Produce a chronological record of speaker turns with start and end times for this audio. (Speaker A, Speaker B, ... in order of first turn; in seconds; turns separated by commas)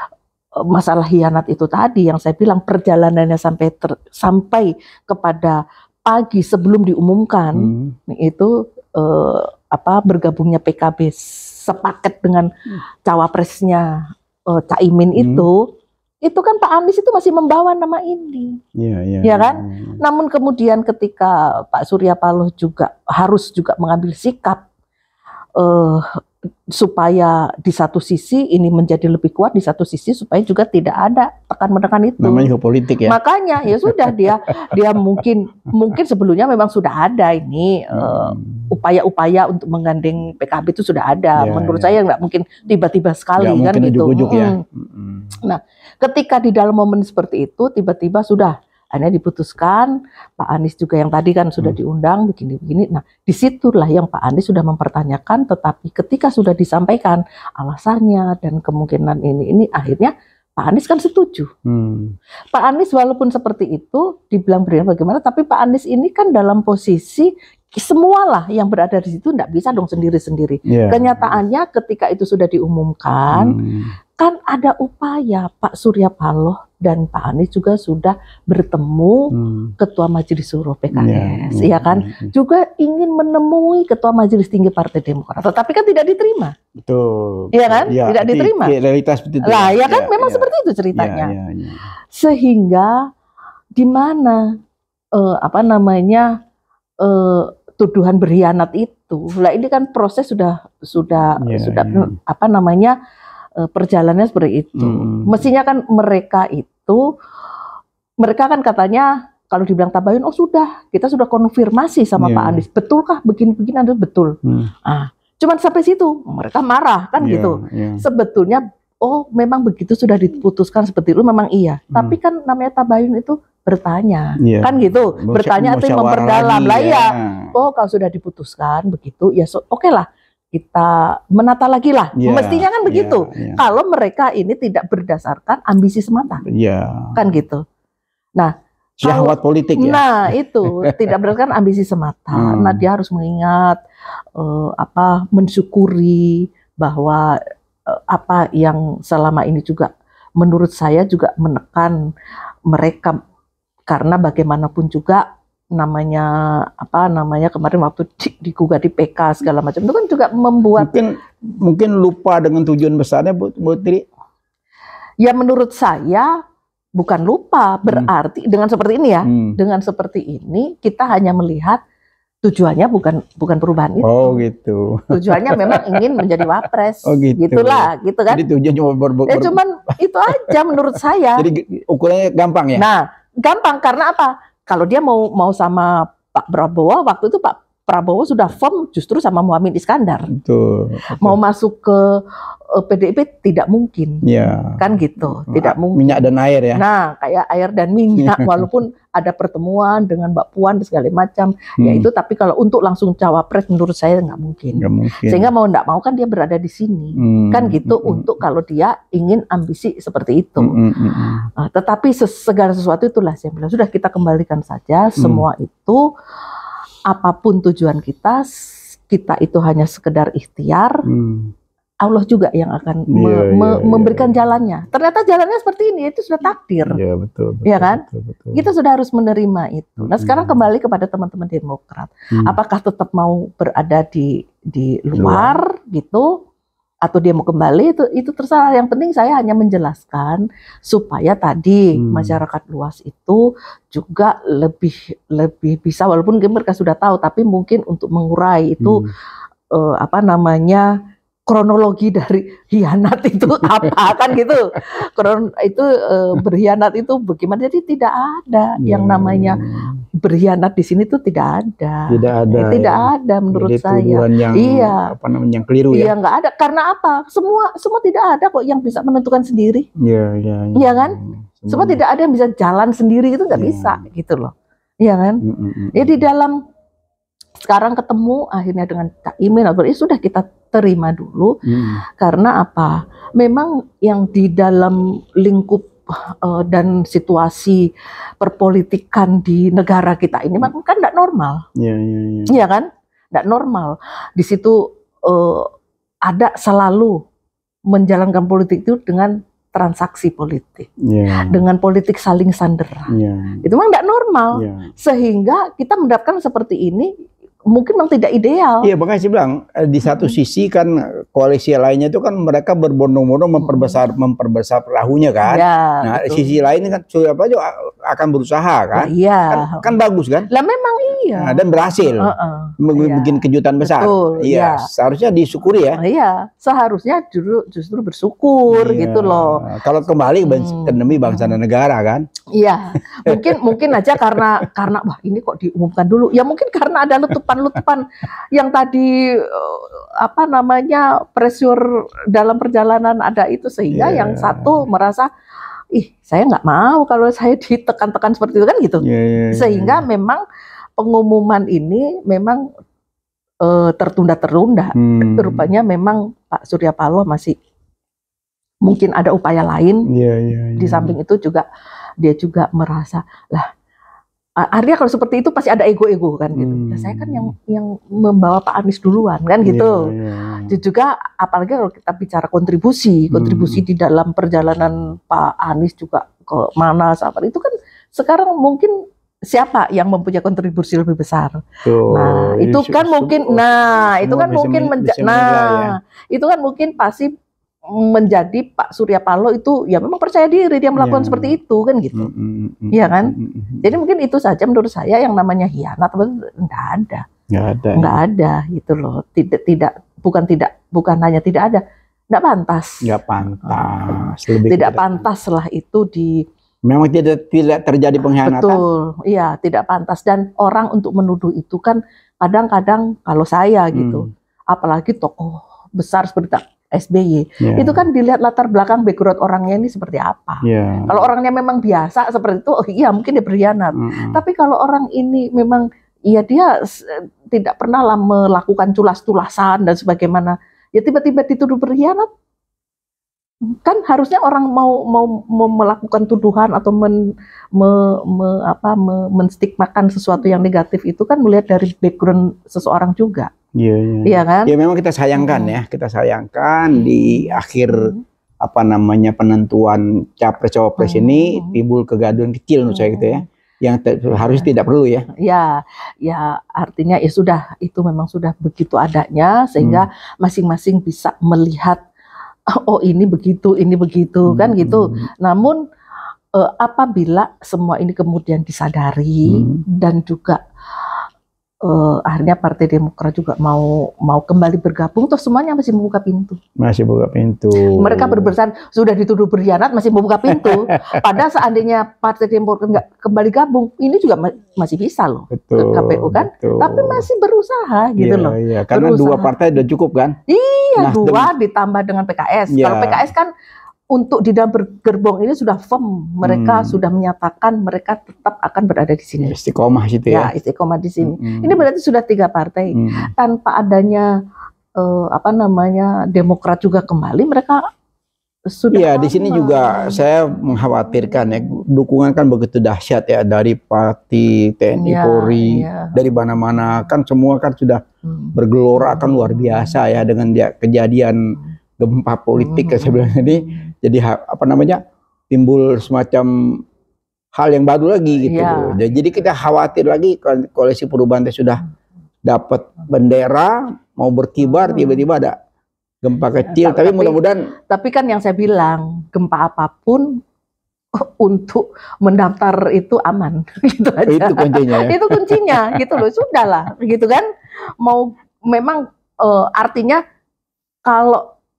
Speaker A: 0.6-12.5, Speaker B: 7.5-8.0, Speaker A: 13.0-15.7, Speaker B: 15.2-15.5, Speaker A: 16.2-18.6, Speaker B: 18.8-20.0, Speaker A: 19.2-24.6, Speaker A: 25.6-26.2, Speaker A: 26.7-32.5, Speaker B: 32.2-34.8, Speaker A: 33.1-44.6, Speaker B: 37.9-38.7, Speaker B: 41.4-41.9, Speaker B: 43.4-45.3, Speaker A: 45.4-61.5, Speaker B: 61.6-62.1, Speaker A: 62.5-73.6, Speaker B: 70.7-71.4, Speaker B: 73.3-73.9, Speaker A: 74.2-86.5, Speaker B: 79.3-79.7, Speaker B: 80.9-82.3, Speaker B: 86.8-91.8, Speaker A: 87.5-88.7, Speaker A: 89.4-91.3, Speaker A: 92.1-93.0, Speaker A: 93.8-94.5, Speaker A: 95.2-96.3, Speaker A: 97.0-103.0, Speaker B: 101.4-102.1, Speaker A: 103.6-107.1, Speaker B: 104.8-105.5, Speaker A: 108.2-136.4, Speaker B: 112.2-112.6, Speaker B: 114.4-114.7, Speaker B: 117.2-118.0, Speaker B: 121.9-122.2, Speaker B: 124.4-127.5, Speaker B: 132.2-133.6, Speaker B: 136.4-137.2, Speaker A: 137.2-137.6, Speaker B: 139.0-141.1, Speaker A: 139.0-143.8, Speaker B: 142.3-142.8, Speaker A: 144.3-152.0, Speaker A: 152.7-153.2, Speaker A: 153.9-161.0, Speaker B: 160.8-164.1, Speaker A: 165.2-166.3, Speaker A: 167.0-171.8, Speaker B: 169.3-169.6, Speaker A: 172.4-174.4, Speaker B: 174.0-176.2, Speaker A: 175.1-178.4, Speaker B: 177.1-179.6, Speaker A: 179.3-181.5, Speaker B: 180.3-180.6, Speaker B: 181.4-182.8, Speaker A: 182.8-190.3, Speaker B: 190.3-191.4, Speaker A: 191.2-210.7, Speaker B: 194.2-196.8, Speaker B: 198.2-198.7, Speaker B: 201.8-202.1, Speaker B: 204.8-205.5, Speaker B: 207.2-208.3, Speaker B: 210.6-211.5, Speaker A: 211.6-216.0, Speaker B: 215.2-215.4, Speaker A: 217.1-218.5, Speaker A: 219.1-221.1, Speaker B: 221.1-221.5, Speaker A: 222.0-227.0, Speaker B: 223.1-224.3, Speaker B: 226.8-228.7, Speaker A: 227.6-236.4, Speaker B: 230.0-230.6, Speaker B: 235.1-235.5, Speaker A: 237.0-249.0, Speaker B: 242.0-242.4, Speaker B: 248.8-249.1, Speaker A: 249.7-250.9, Speaker A: 251.5-259.6, Speaker B: 253.6-254.0, Speaker B: 258.8-260.0, Speaker A: 260.2-265.1, Speaker B: 262.1-266.1, Speaker A: 265.9-269.9, Speaker B: 270.0-272.0, Speaker A: 270.8-276.6, Speaker B: 273.5-274.0, Speaker B: 275.4-276.2, Speaker A: 277.6-281.6, Speaker B: 281.6-282.0, Speaker A: 282.1-287.9, Speaker A: 288.4-291.6, Speaker B: 291.8-292.6, Speaker A: 292.5-295.7, Speaker A: 296.3-297.2, Speaker A: 297.9-303.1, Speaker B: 301.0-301.6, Speaker B: 303.1-303.6, Speaker A: 303.6-307.1, Speaker B: 304.5-304.9, Speaker A: 307.7-308.9, Speaker B: 308.8-320.5, Speaker A: 313.6-313.9, Speaker A: 315.5-316.5, Speaker A: 318.9-319.9, Speaker A: 320.5-324.9, Speaker B: 321.4-326.0, Speaker A: 325.9-329.6, Speaker B: 328.7-332.3, Speaker A: 330.4-331.6, Speaker A: 332.5-345.3, Speaker B: 332.9-334.7, Speaker B: 343.9-344.8, Speaker A: 345.9-350.4, Speaker B: 349.0-350.0, Speaker A: 351.0-352.6, Speaker A: 353.6-357.6, Speaker B: 354.9-355.7, Speaker A: 358.8-360.1, Speaker B: 360.1-361.2, Speaker A: 360.8-361.6, Speaker A: 362.2-363.7, Speaker A: 364.6-370.1, Speaker B: 366.5-367.5, Speaker B: 369.6-370.7, Speaker A: 370.7-379.0, Speaker B: 373.3-373.8, Speaker A: 379.5-387.3, Speaker B: 381.8-385.9, Speaker A: 387.9-392.3, Speaker B: 390.9-391.6, Speaker B: 392.1-393.9, Speaker A: 392.9-397.2, Speaker B: 397.5-398.2, Speaker A: 397.9-406.4, Speaker B: 403.0-405.2, Speaker B: 406.9-408.8, Speaker A: 408.4-432.3, Speaker B: 413.9-414.2, Speaker B: 417.6-418.0, Speaker B: 420.6-421.3, Speaker B: 423.9-424.4, Speaker A: 433.6-437.2, Speaker A: 437.7-443.5, Speaker B: 443.8-455.3, Speaker A: 444.2-444.7, Speaker A: 445.4-445.7, Speaker A: 447.0-448.2, Speaker A: 451.0-451.8, Speaker A: 452.9-453.4, Speaker A: 454.4-454.7, Speaker A: 455.4-462.0, Speaker A: 462.7-465.8, Speaker B: 464.5-465.3, Speaker A: 466.5-470.6, Speaker B: 469.5-469.8, Speaker A: 471.8-476.6, Speaker B: 476.8-478.5, Speaker A: 477.9-489.5, Speaker B: 480.5-481.2, Speaker B: 485.5-487.2, Speaker B: 488.2-490.4, Speaker A: 490.5-493.5, Speaker B: 491.0-491.5, Speaker B: 492.7-493.3, Speaker A: 494.1-499.6, Speaker B: 496.4-497.0, Speaker B: 499.4-500.5, Speaker A: 500.3-504.3, Speaker B: 501.2-501.8, Speaker B: 502.9-503.3, Speaker A: 505.0-507.8, Speaker A: 508.7-510.2, Speaker B: 508.9-518.0, Speaker A: 515.0-517.1, Speaker A: 518.2-520.0, Speaker B: 518.5-526.8, Speaker A: 522.6-523.9, Speaker B: 527.5-531.8, Speaker A: 528.5-529.1, Speaker B: 532.4-535.5, Speaker A: 534.6-535.2, Speaker B: 536.2-537.6, Speaker A: 536.6-537.4, Speaker A: 537.9-540.4, Speaker A: 541.1-547.5, Speaker B: 544.3-546.2, Speaker A: 548.0-550.2, Speaker A: 551.0-551.4